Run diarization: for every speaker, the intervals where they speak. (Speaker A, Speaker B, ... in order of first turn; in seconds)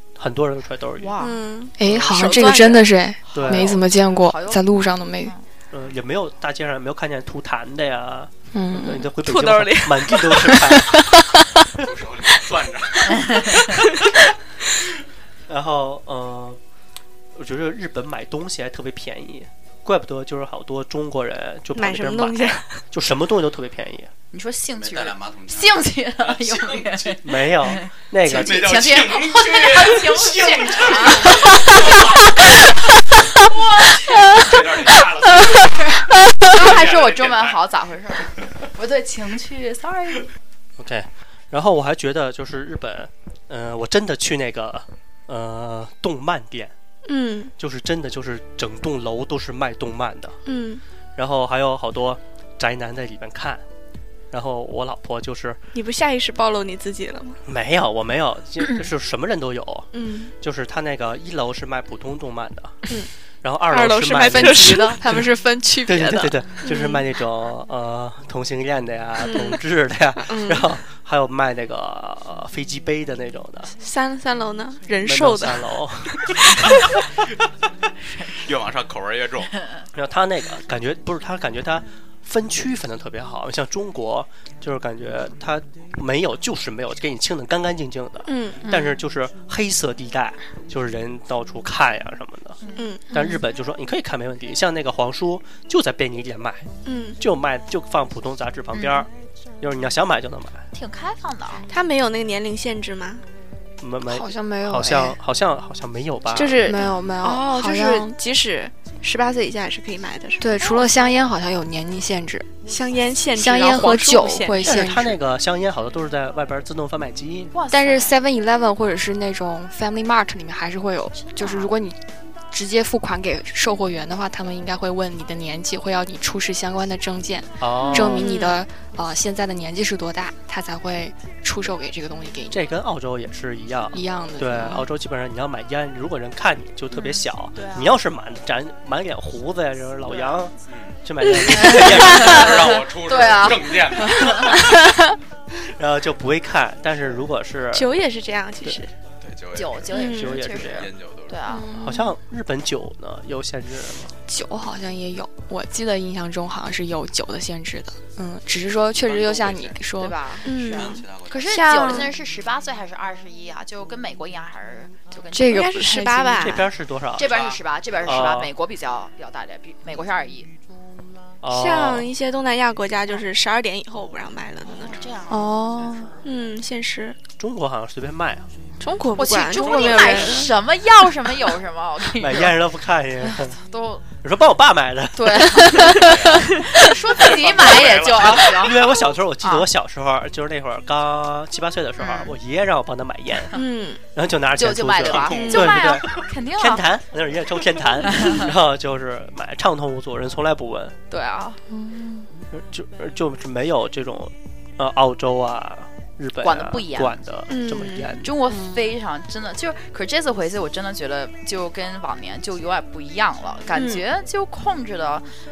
Speaker A: 0.2-1.1, 1.8-2.3, 3.3-3.8, 5.7-11.0, 15.5-16.6, 17.3-24.1, 27.2-28.7, 40.8-46.8, 47.6-50.4, 51.1-53.6, 54.3-55.6, 57.5-65.2, 65.8-73.7, 75.0-76.8, 79.9-92.6, 93.1-96.7, 97.2-99.1, 99.6-100.7, 103.8-106.7, 114.6-117.5, 127.6-128.3, 132.5-142.7, 145.5-147.9, 150.0-150.9, 151.8-154.1, 166.4-167.3, 168.0-168.5, 171.4-172.1, 177.4-178.5, 182.2-183.6, 184.2-185.9, 187.8-193.5, 194.1-200.9, 202.5-208.3
Speaker B: 1.0-1.5, 3.3-5.4, 13.2-13.7, 24.3-31.9, 33.3-35.0, 35.6-40.3, 78.1-78.5, 92.6-92.9, 98.7-99.1, 100.7-101.7, 117.5-118.1, 121.2-121.7, 137.6-137.9, 141.5-144.6, 149.5-151.7, 160.0-165.9, 167.2-170.5, 174.7-176.2, 179.2-182.6, 183.2-184.1, 185.2-188.9, 189.4-189.7, 192.0-192.3, 194.6-196.8, 198.0-198.5, 201.1-201.6, 206.4-207.2, 208.2-215.3
Speaker C: 1.2-2.9, 9.2-10.8, 21.8-22.8, 47.0-47.5, 50.5-50.8, 55.7-57.4, 59.9-60.3, 63.7-65.0, 66.6-67.0, 69.2-69.6, 70.2-70.7, 73.8-75.7, 88.2-88.6, 92.8-93.1, 96.9-97.2, 101.7-103.2, 106.3-110.7, 112.6-114.7, 127.8-128.6, 147.7-148.9, 149.9-150.4, 160.4-162.1, 165.5-166.7, 171.5-175.0, 176.2-177.2, 178.8-180.5, 193.5-194.0, 195.4-195.7, 207.5-208.2, 213.7-214.0
Speaker D: 1.8-5.3, 8.5-9.1, 64.3-66.3, 104.1-105.2, 106.6-108.1, 110.4-112.6, 113.3-115.1, 117.7-122.0, 122.5-132.6, 133.9-134.9, 151.5-152.1, 154.3-160.2, 165.3-166.5, 175.3-176.1, 201.7-202.3, 208.4-208.9
Speaker E: 11.8-13.9, 24.8-27.2, 28.3-32.5, 34.2-35.7, 36.5-37.6, 78.4-79.5, 140.7-141.0, 141.8-144.6, 149.2-151.4, 158.9-159.8, 160.6-161.9, 167.2-167.6, 179.6-180.5, 185.9-186.5, 187.1-188.7, 195.1-195.7